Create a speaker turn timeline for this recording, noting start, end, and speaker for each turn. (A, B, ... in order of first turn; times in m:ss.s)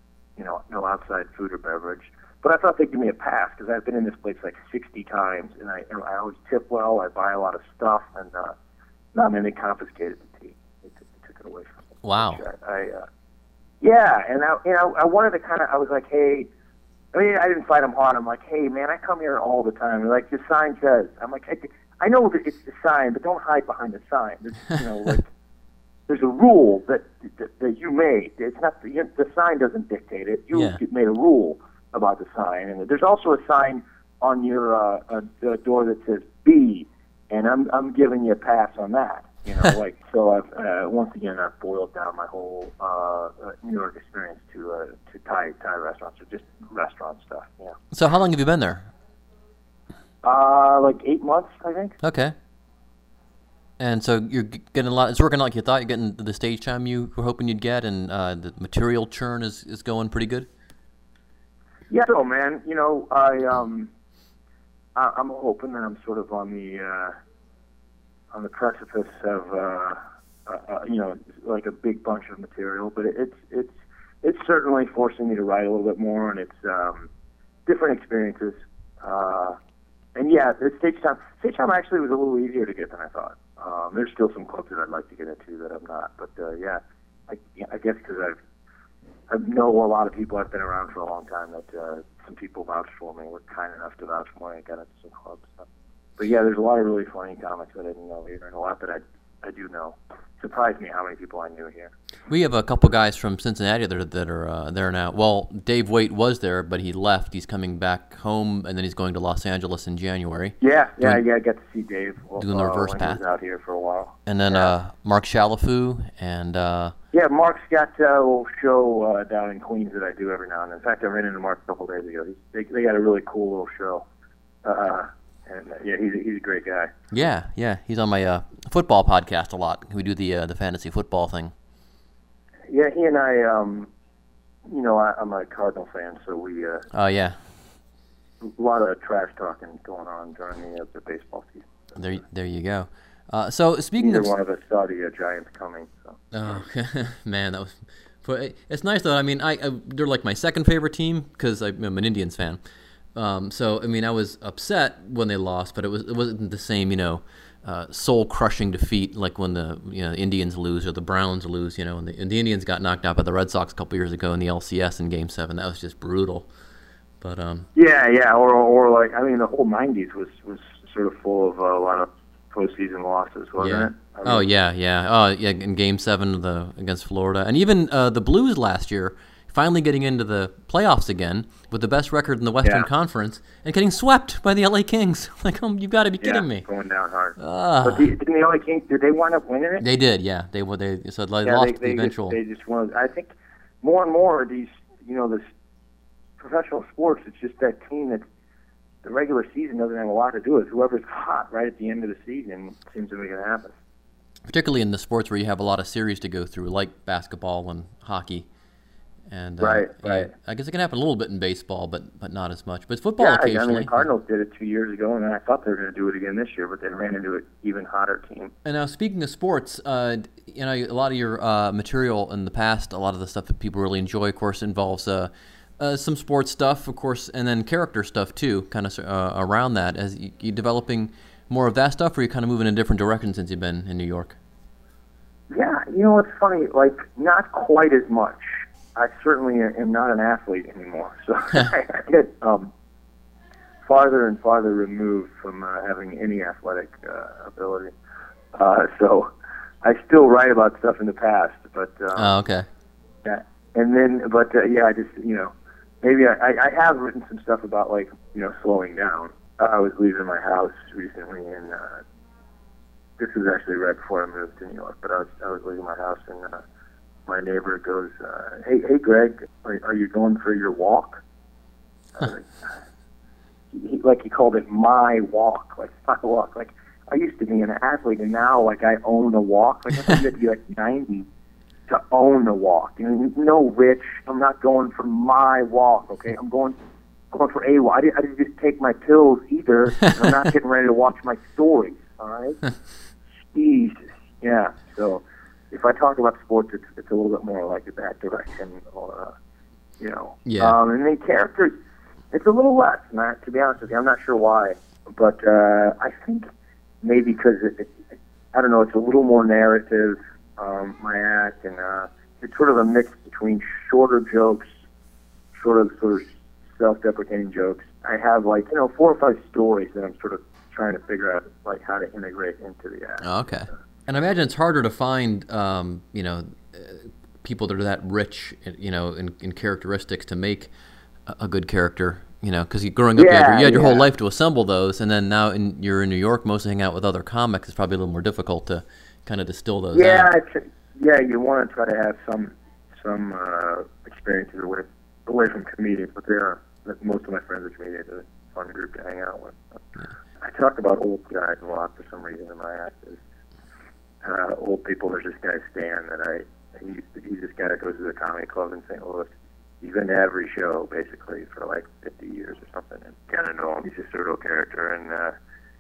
0:00.4-0:08.6 A
0:09.2-0:13.1 A
0:12.0-0:12.4 B
0:13.8-0:16.5 A
0:17.1-0:25.3 A
0:26.1-0:47.8 A
0:30.5-0:30.8 B
0:47.9-0:48.9 B
0:50.2-0:52.0 A
0:52.0-0:52.4 B
0:53.8-1:00.5 B
1:01.9-1:03.9 A
1:05.0-1:07.2 A
1:08.3-1:17.1 A
1:17.7-1:19.6 A
1:20.2-1:28.4 A
1:29.3-1:35.6 A
1:36.2-1:41.9 A
1:42.3-1:51.2 B
1:50.6-1:54.7 A
1:52.4-1:53.2 B
1:54.3-1:57.0 B
1:57.1-2:04.0 A
2:04.6-2:06.9 A
2:07.1-2:11.5 B
2:12.7-2:13.9 A
2:14.7-2:16.9 A
2:16.9-2:17.4 B
2:18.4-2:21.7 A
2:22.0-2:24.3 B
2:24.0-2:26.6 A
2:26.3-2:32.6 B
2:33.2-2:46.5 B
2:47.2-2:47.7 B
2:47.8-2:54.5 A
2:53.6-3:06.7 B
3:02.6-3:02.9 A
3:06.2-3:09.9 A
3:07.4-3:08.1 B
3:09.8-3:12.4 B
3:11.4-3:15.5 A
3:16.4-3:18.2 A
3:19.0-3:23.8 A
3:24.5-3:28.5 B
3:29.3-3:34.0 B
3:29.6-3:30.3 A
3:33.2-3:38.5 A
3:38.6-3:54.4 B
3:55.5-4:02.7 A
4:03.9-4:07.9 A
4:08.5-4:09.3 A
4:09.8-4:12.4 A
4:12.2-4:12.7 B
4:13.2-4:22.0 A
4:23.2-4:26.6 A
4:27.3-4:31.2 A
4:32.2-4:32.7 A
4:33.7-4:41.3 A
4:41.9-4:46.8 A
4:47.3-4:52.6 A
4:53.5-4:59.3 A
5:00.0-5:01.8 A
5:00.4-5:00.8 B
5:02.3-5:06.5 A
5:07.0-5:07.9 A
5:08.5-5:14.7 A
5:15.6-5:23.2 A
5:23.2-5:30.7 B
5:31.3-5:40.3 B
5:33.2-5:34.1 A
5:39.9-5:49.8 A
5:50.4-5:53.2 A
5:54.2-5:59.3 A
5:59.8-6:05.4 A